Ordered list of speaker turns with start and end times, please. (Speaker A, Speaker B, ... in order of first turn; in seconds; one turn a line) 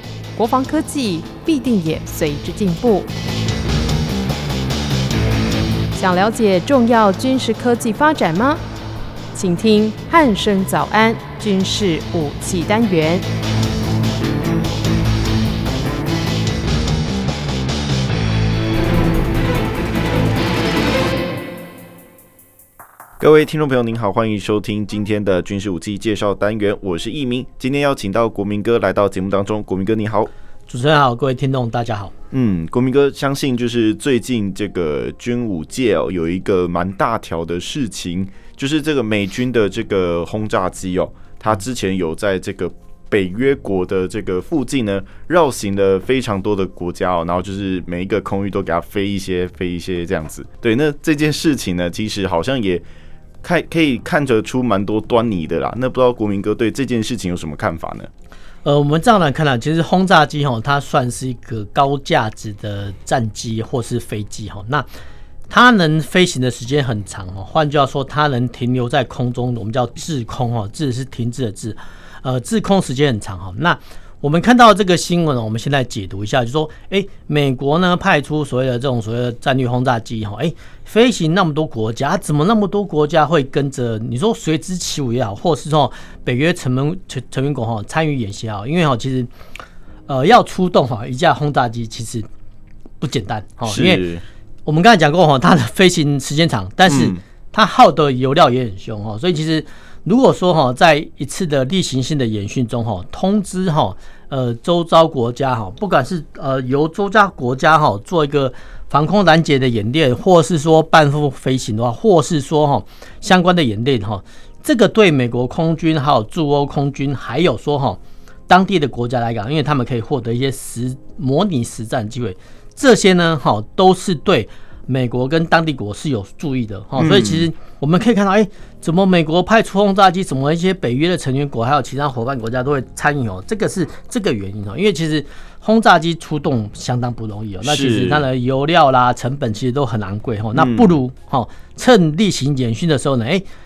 Speaker A: 0.3-3.1
Speaker A: 6.0-8.6
Speaker A: 9.3-13.2
Speaker B: 23.2-30.3
Speaker C: 30.7-32.1
Speaker B: 32.3-52.8
Speaker B: 53.4-58.1
Speaker C: 58.6-64.8
Speaker C: 65.5-89.3
Speaker C: 90.1-92.2
Speaker C: 93.0-94.0
Speaker B: 93.7-94.2
Speaker C: 94.7-143.4
Speaker B: 96.9-97.2
Speaker B: 127.0-127.5
Speaker B: 137.6-138.2
Speaker B: 140.5-140.9